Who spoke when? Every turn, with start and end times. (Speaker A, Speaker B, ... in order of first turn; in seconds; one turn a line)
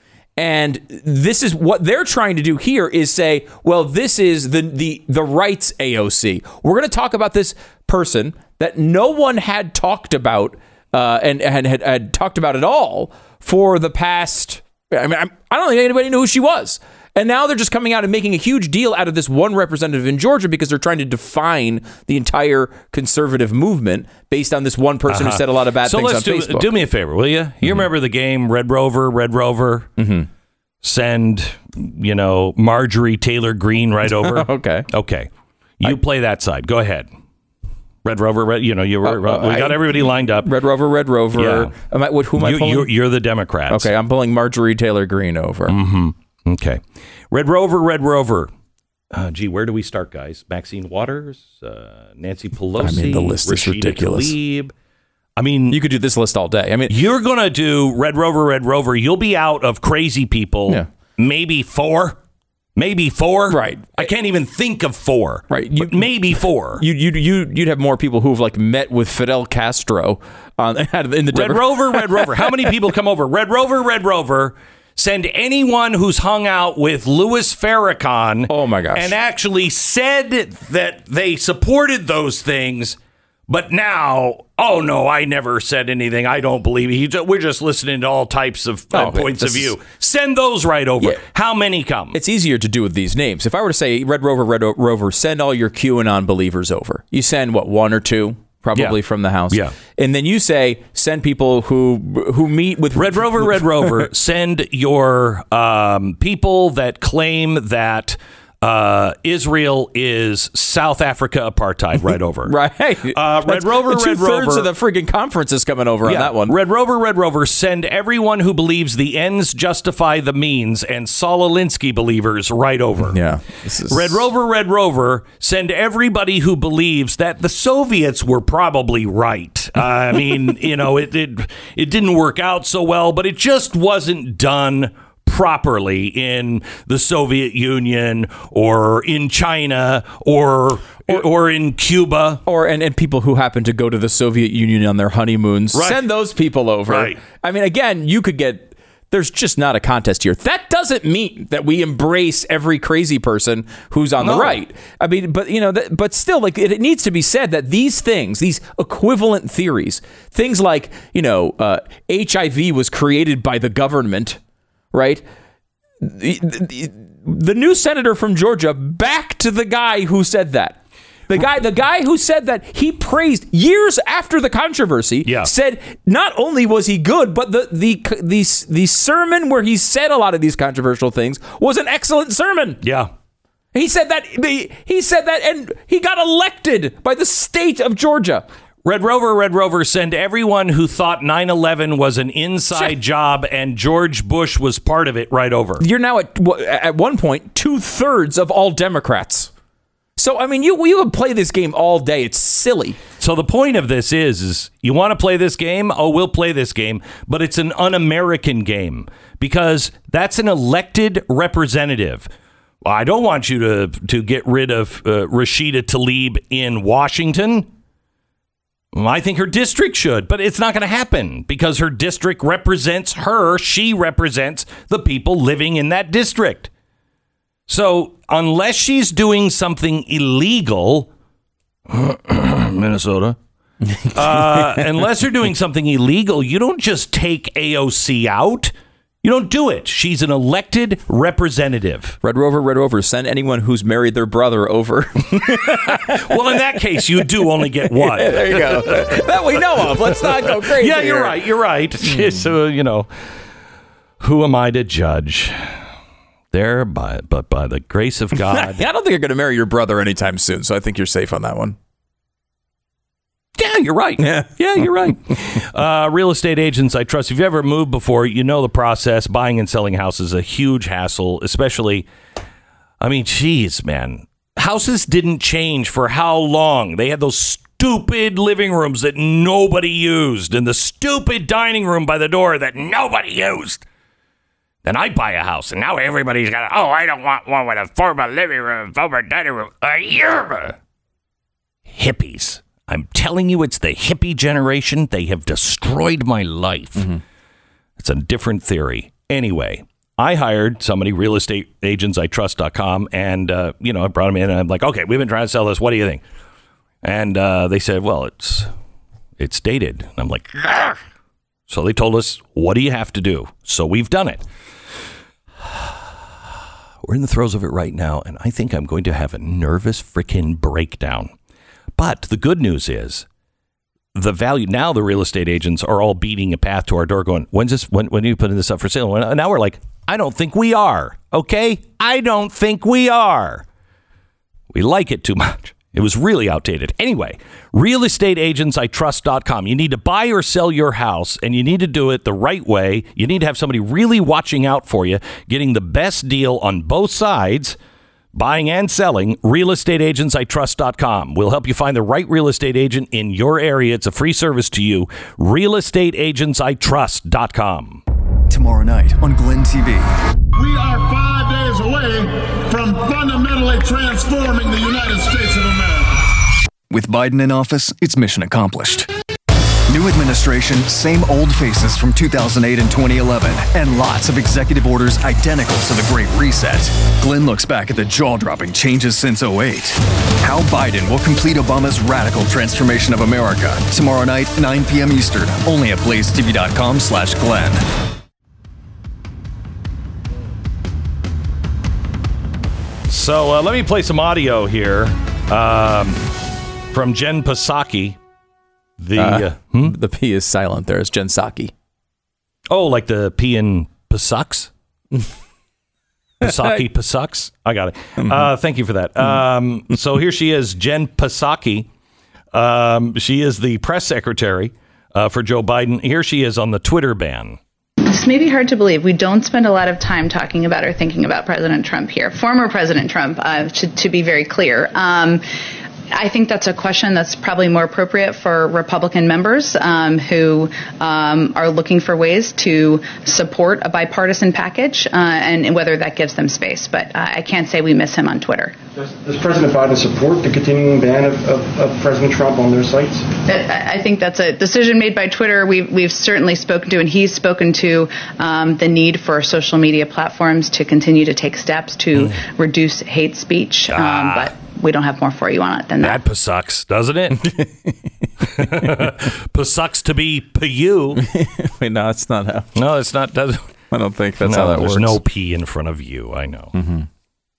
Speaker A: 0.4-26.7
Speaker B: 25.1-29.9
Speaker A: 30.0-30.3
Speaker B: 30.8-37.1
Speaker A: 34.2-34.9
Speaker B: 38.0-40.5
Speaker A: 39.0-42.9
Speaker B: 41.3-41.7
Speaker B: 42.4-43.9
Speaker A: 43.7-45.8
Speaker B: 45.7-48.5
Speaker B: 49.1-54.7
Speaker A: 52.8-54.4
Speaker B: 55.4-55.8
Speaker A: 55.7-57.0
Speaker B: 56.9-62.2
Speaker B: 62.8-66.8
Speaker A: 63.5-64.1
Speaker A: 65.5-72.7
Speaker B: 71.3-92.2
Speaker A: 78.5-79.2
Speaker A: 88.9-89.7
Speaker A: 92.1-104.1
Speaker B: 99.5-99.8
Speaker B: 103.0-112.5
Speaker A: 112.5-116.6
Speaker B: 113.1-114.7
Speaker B: 116.0-123.2
Speaker A: 123.0-124.3
Speaker B: 123.9-142.4
Speaker A: 142.5-164.4
Speaker B: 145.7-146.0
Speaker B: 146.9-147.2
Speaker B: 154.2-154.6
Speaker A: 164.9-165.2
Speaker A: 166.0-182.8
Speaker B: 175.2-175.5
Speaker B: 182.8-183.1
Speaker A: 183.7-188.5
Speaker B: 188.8-195.8
Speaker A: 195.8-199.5
Speaker A: 200.2-203.0
Speaker B: 203.2-212.3
Speaker B: 212.8-217.7
Speaker B: 218.9-226.7
Speaker B: 227.7-231.1
Speaker B: 231.9-233.4
Speaker A: 234.0-234.8
Speaker B: 234.0-238.7
Speaker B: 239.2-242.2
Speaker A: 242.2-251.4
Speaker B: 245.4-253.1
Speaker A: 252.0-252.3
Speaker B: 254.2-255.7
Speaker B: 256.5-258.8
Speaker A: 258.4-261.8
Speaker B: 263.6-272.1
Speaker A: 264.2-265.2
Speaker B: 273.0-283.9
Speaker B: 284.8-290.8
Speaker B: 291.9-297.2
Speaker B: 298.0-306.2
Speaker B: 307.0-308.7
Speaker B: 309.4-311.0
Speaker B: 311.7-314.4
Speaker B: 317.0-321.3
Speaker B: 322.0-323.3
Speaker B: 324.1-333.7
Speaker B: 334.7-347.8
Speaker B: 348.3-358.0
Speaker C: 358.5-360.1
Speaker D: 360.5-366.3
Speaker C: 366.9-369.1
Speaker C: 369.9-387.8
Speaker B: 393.1-396.2
Speaker B: 396.9-398.2
Speaker B: 399.0-399.9
Speaker A: 399.1-401.7
Speaker B: 402.7-404.7
Speaker B: 406.4-411.9
Speaker B: 412.5-417.6
Speaker E: 418.1-425.4
Speaker E: 426.1-438.8
Speaker F: 439.0-443.3
Speaker E: 443.5-456.2
Speaker B: 453.9-454.5
Speaker B: 456.0-457.6
Speaker A: 457.4-457.9
Speaker B: 458.4-461.3
Speaker A: 461.1-462.7
Speaker B: 462.8-463.7
Speaker A: 463.9-465.2
Speaker B: 464.4-466.8
Speaker A: 466.8-467.1